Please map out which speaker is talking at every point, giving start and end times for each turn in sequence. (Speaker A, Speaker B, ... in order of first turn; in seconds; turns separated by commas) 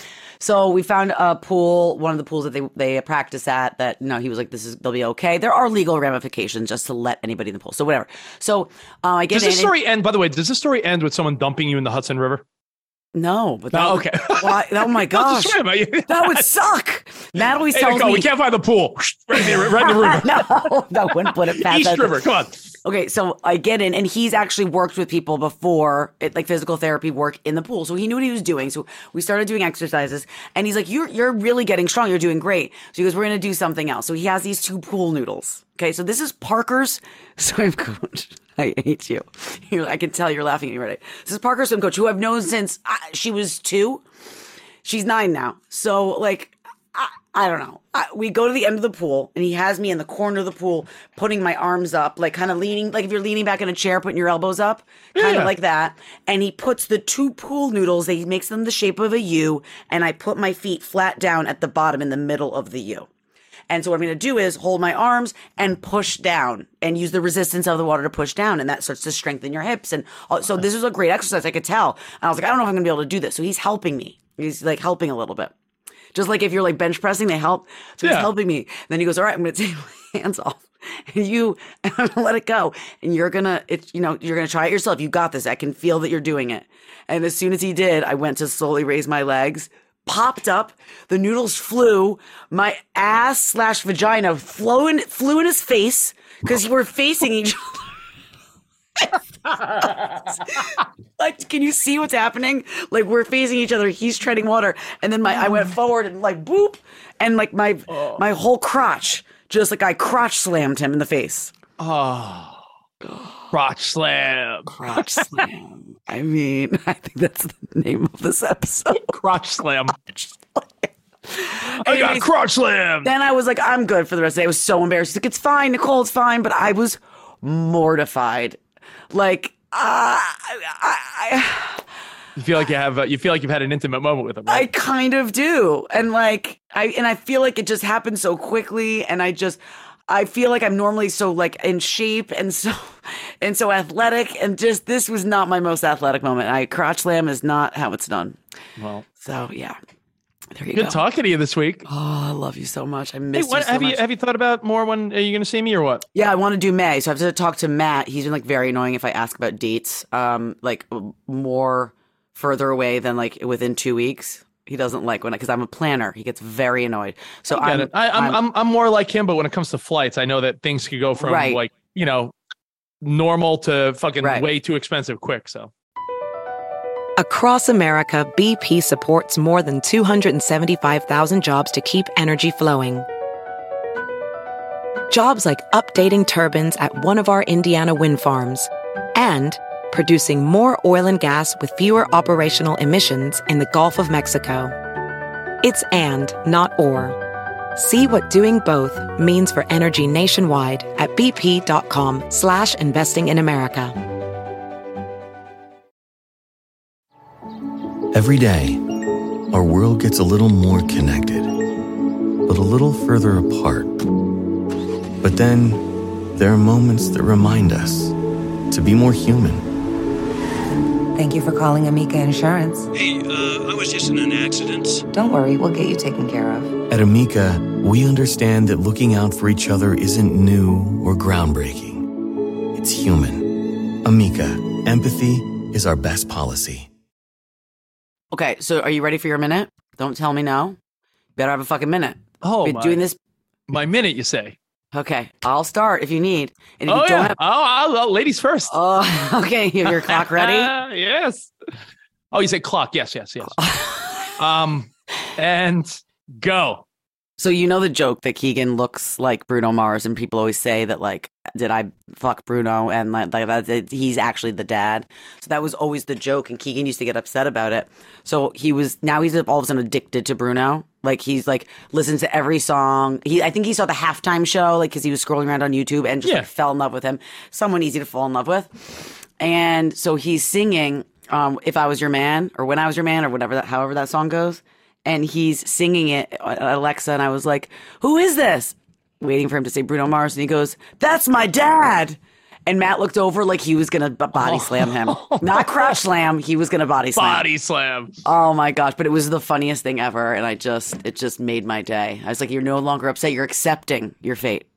Speaker A: 0.4-9.7, Speaker B: 9.3-12.4, Speaker A: 13.1-15.6, Speaker B: 13.7-16.5, Speaker A: 16.1-18.3, Speaker B: 17.7-20.5, Speaker A: 19.4-22.2, Speaker B: 21.1-22.6, Speaker A: 22.8-44.0, Speaker A: 44.8-63.1, Speaker B: 55.2-55.5, Speaker A: 63.7-75.5, Speaker A: 76.1-97.8, Speaker B: 78.0-78.3, Speaker A: 99.0-111.5, Speaker B: 107.9-108.2, Speaker B: 111.8-112.6, Speaker A: 113.0-113.5, Speaker B: 113.5-115.5, Speaker A: 114.8-119.1, Speaker B: 118.9-120.0, Speaker A: 120.1-122.3, Speaker B: 121.8-123.1, Speaker A: 123.0-128.6, Speaker A: 129.1-131.8, Speaker B: 132.4-134.7, Speaker A: 134.5-148.4, Speaker B: 148.8-149.1, Speaker A: 149.2-149.8, Speaker A: 150.6-151.0, Speaker B: 150.7-151.9, Speaker A: 151.9-154.0, Speaker B: 153.3-156.0, Speaker A: 156.2-168.4, Speaker B: 167.5-172.3, Speaker A: 171.2-171.6, Speaker B: 173.0-175.7, Speaker C: 177.2-183.1, Speaker C: 185.1-194.7, Speaker C: 195.6-197.2, Speaker C: 197.8-204.0, Speaker D: 208.1-209.0, Speaker D: 209.5-211.5, Speaker D: 212.5-214.1, Speaker D: 215.2-218.2, Speaker D: 218.7-219.7, Speaker E: 220.9-222.9, Speaker F: 222.9-225.1, Speaker E: 225.1-226.8, Speaker D: 226.9-232.1, Speaker D: 232.7-236.9, Speaker A: 238.3-240.8, Speaker A: 241.4-243.2, Speaker B: 242.4-243.0, Speaker B: 243.7-244.6, Speaker A: 244.9-247.4, Speaker B: 246.9-248.7, Speaker A: 248.7-250.7, Speaker B: 249.9-251.5, Speaker B: 252.3-256.8, Speaker A: 253.6-254.3, Speaker A: 257.4-297.5, Speaker B: 294.4-296.0, Speaker B: 297.2-298.2, Speaker A: 298.2-304.7